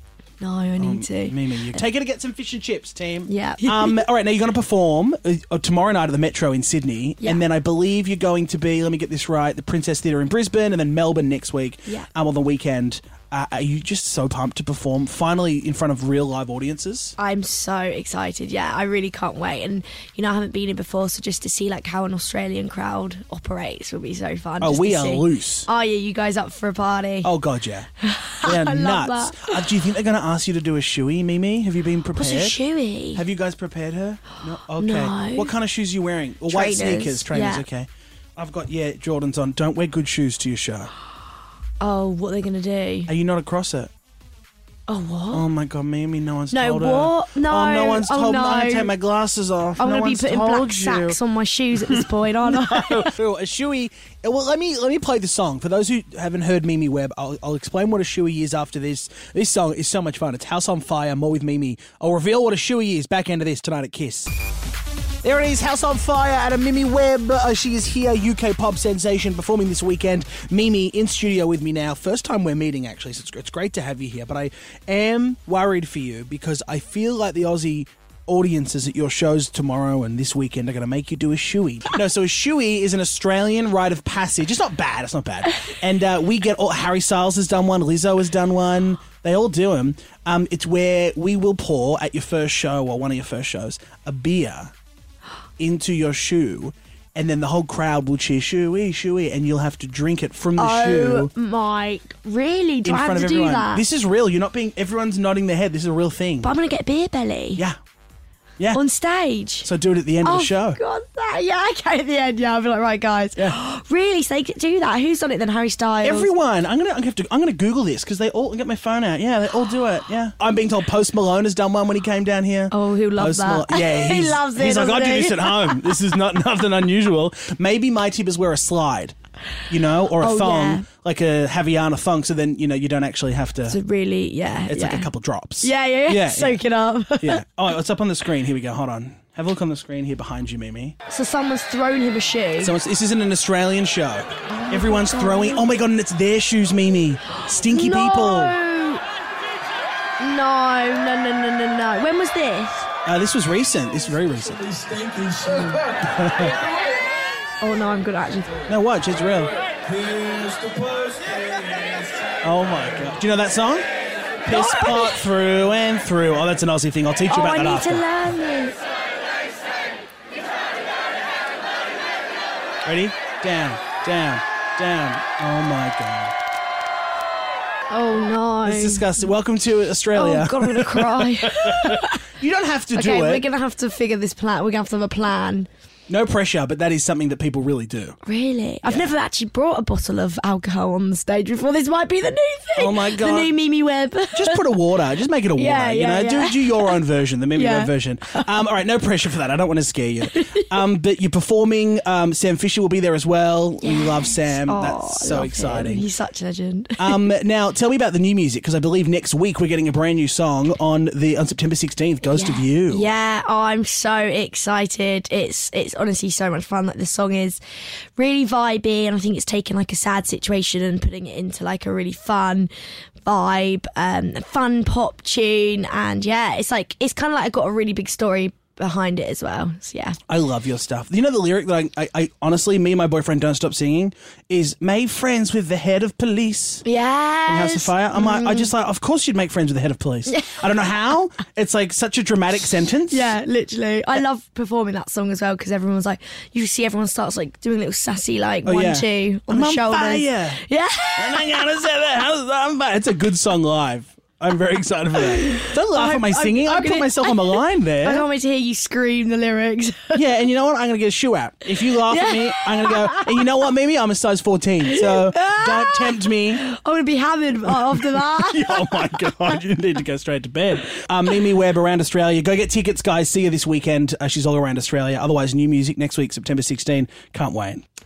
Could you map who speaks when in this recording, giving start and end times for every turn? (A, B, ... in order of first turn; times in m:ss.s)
0:00.4-0:01.8 A
0:00.8-0:17.2 B
0:03.3-0:04.0 A
0:17.2-0:27.3 A
0:24.6-0:25.7 B
0:27.2-0:27.9 B
0:28.0-0:29.6 A
0:28.4-0:32.6 B
0:32.2-0:33.2 A
0:33.2-0:40.9 B
0:34.8-0:35.5 A
0:36.5-0:37.6 A
0:41.8-0:43.1 A
0:43.1-0:43.9 B
0:44.9-0:45.4 A
0:45.3-0:51.2 B
0:46.5-0:48.9 A
0:49.8-0:53.2 A
0:51.8-1:04.3 B
1:05.2-1:34.7 B
1:35.6-1:41.3 B
1:40.6-1:43.8 A
1:42.8-1:46.5 B
1:46.4-1:47.6 A
1:48.7-1:49.7 A
1:49.6-1:50.8 B
1:50.2-1:56.3 A
1:56.0-2:09.2 B
2:02.7-2:05.9 A
2:09.7-2:13.8 B
2:10.2-2:10.9 A
2:13.7-2:15.1 A
2:14.7-2:16.6 B
2:15.6-2:17.4 A
2:17.2-2:21.0 B
2:21.1-2:22.8 A
2:22.6-2:28.6 B
2:24.5-2:25.7 A
2:27.4-2:29.0 A
2:30.2-2:32.9 A
2:33.0-2:36.6 B
2:37.6-2:38.6 A
2:38.7-2:39.5 B
2:42.4-2:43.8 B
2:44.5-2:48.1 B
2:44.5-2:45.2 A
2:47.3-2:48.8 A
2:52.8-2:56.3 B
2:57.9-2:59.2 A
2:58.6-3:03.5 B
3:00.1-3:02.3 A
3:02.9-3:05.7 A
3:06.1-3:08.2 B
3:08.2-3:14.6 A
3:08.8-3:09.1 B
3:12.8-3:13.5 B
3:14.3-3:26.1 B
3:15.6-3:17.0 A
3:17.6-3:18.5 A
3:20.3-3:20.7 A
3:23.8-3:27.2 A
3:27.0-3:33.1 B
3:32.2-3:37.6 A
3:38.2-3:42.7 A
3:43.2-3:50.2 A
3:50.3-3:56.8 B
3:56.8-3:58.7 A
3:57.5-4:03.3 B
4:00.3-4:00.6 A
4:03.1-4:11.7 A
4:08.7-4:10.6 B
4:11.2-4:18.3 B
4:15.2-4:20.2 A
4:20.1-4:26.6 B
4:22.0-4:23.4 A
4:24.9-4:29.3 A
4:27.7-4:37.8 B